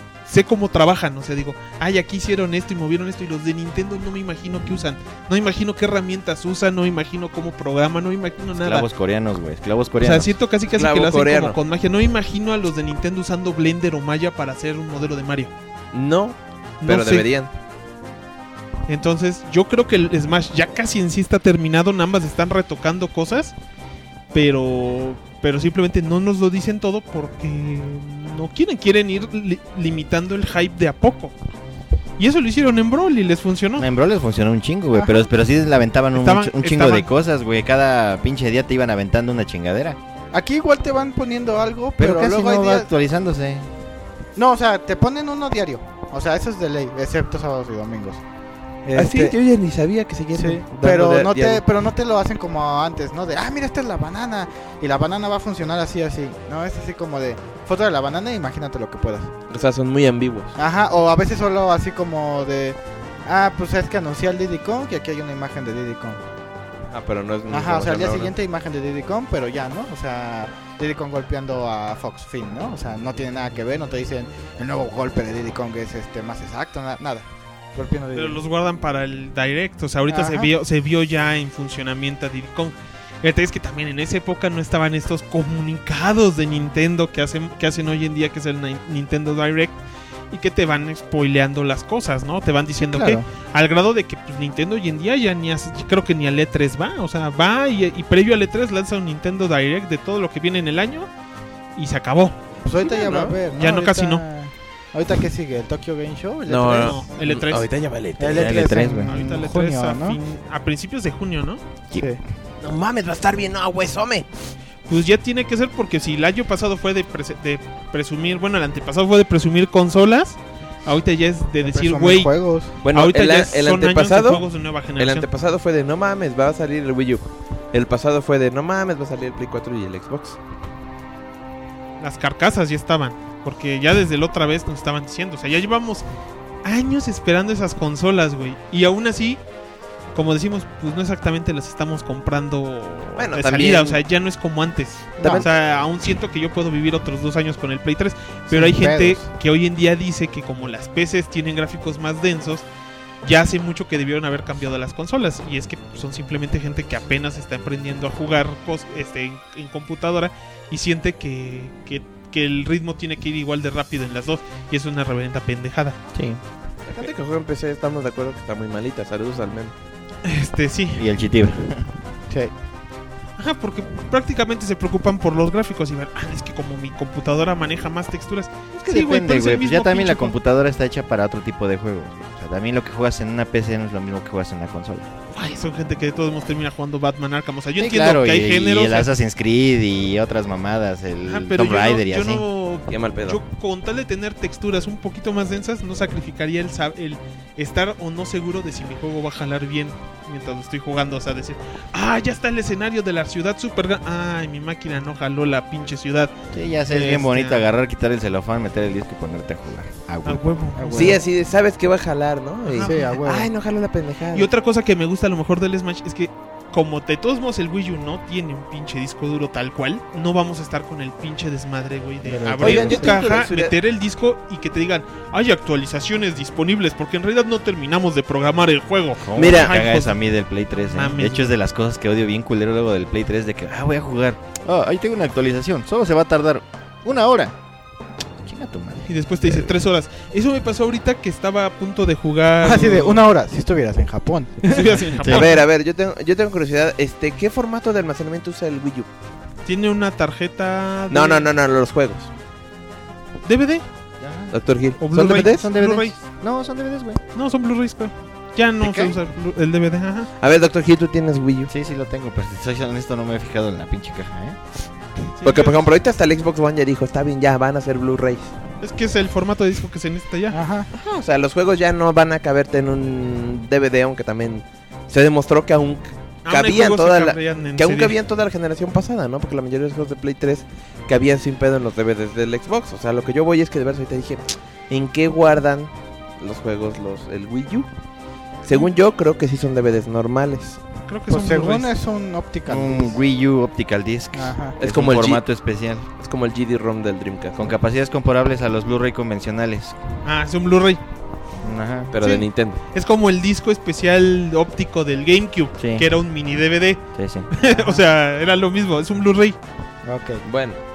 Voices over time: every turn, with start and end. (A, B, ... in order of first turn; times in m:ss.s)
0:00.2-0:08.9 A
0:08.6-0:10.3 B
0:10.0-0:15.5 A
0:10.7-0:11.6 C
0:15.9-0:17.5 C
0:16.8-0:17.2 A
0:18.9-0:23.5 A
0:24.3-0:31.3 A
0:32.2-0:33.9 A
0:33.8-0:40.0 B
0:34.9-0:35.3 D
0:36.2-0:37.1 A
0:40.3-0:42.9 D
0:42.0-0:43.7 B
0:44.4-0:48.2 D
0:48.8-0:49.4 D
0:48.9-0:51.6 C
0:50.3-0:59.3 D
0:59.5-1:00.6 C
1:00.6-1:06.2 D
1:06.9-1:08.3 C
1:07.5-1:18.4 D
1:18.1-1:29.8 A
1:20.1-1:20.5 D
1:30.3-1:41.1 A
1:32.8-1:33.2 D
1:41.8-1:42.4 A
1:42.6-1:47.0 D
1:42.8-1:43.4 C
1:43.5-1:44.2 A
1:46.4-1:48.6 C
1:46.8-1:47.7 A
1:48.2-1:50.2 D
1:48.3-1:49.1 B
1:49.1-1:51.6 A
1:51.9-1:52.2 D
1:52.6-1:54.3 C
1:54.9-2:02.3 A
2:01.6-2:02.7 D
2:02.8-2:04.4 C
2:02.9-2:05.3 A
2:05.0-2:10.4 C
2:12.0-2:16.0 A
2:16.6-2:19.4 A
2:20.1-2:32.6 A
2:23.2-2:24.0 C
2:25.2-2:25.5 D
2:28.5-2:29.2 D
2:33.2-2:46.0 A
2:46.1-2:46.4 B
2:46.8-2:49.7 C
2:50.2-2:51.0 A
2:50.9-2:51.9 B
2:53.4-3:00.3 A
2:58.8-3:05.1 B
3:05.3-3:09.1 A
3:07.8-3:12.4 B
3:11.2-3:26.3 A
3:12.9-3:13.4 C
3:26.5-3:30.4 B
3:26.9-3:27.6 A
3:30.2-3:31.2 A
3:30.8-3:31.2 D
3:30.9-3:34.5 C
3:32.7-3:33.1 A
3:32.8-3:33.5 D
3:34.3-3:51.5 A
3:42.2-3:43.2 D
3:42.6-3:43.7 C
3:49.2-3:57.5 B
3:49.4-3:49.7 C
3:58.4-3:59.7 B
3:59.0-4:03.2 A
4:02.6-4:05.1 D
4:04.7-4:05.6 A
4:05.2-4:05.5 B
4:05.2-4:09.1 C
4:09.6-4:11.5 A
4:11.1-4:12.3 C
4:13.4-4:13.8 A
4:14.2-4:14.6 B
4:14.5-4:15.6 C
4:15.0-4:16.2 A
4:15.2-4:17.2 B
4:17.3-4:20.3 A
4:18.8-4:19.2 B
4:20.4-4:21.7 C
4:21.7-4:24.6 B
4:25.4-4:25.8 A
4:25.4-4:28.5 C
4:28.8-4:30.6 A
4:30.5-4:30.9 D
4:30.9-4:47.9 C
4:36.4-4:38.1 A
4:48.6-4:50.8 C
4:51.0-4:51.9 A
4:51.3-4:53.2 D
4:52.7-4:56.1 B
4:54.3-4:54.8 D
4:54.8-4:55.4 C
4:56.2-4:57.7 C
4:57.5-5:00.0 B
5:00.2-5:01.0 A
5:01.6-5:02.1 B
5:02.1-5:02.8 C
5:02.2-5:09.6 A
5:05.8-5:06.0 B
5:07.2-5:07.5 B
5:07.7-5:08.0 D
5:10.0-5:10.4 D
5:10.4-5:10.8 C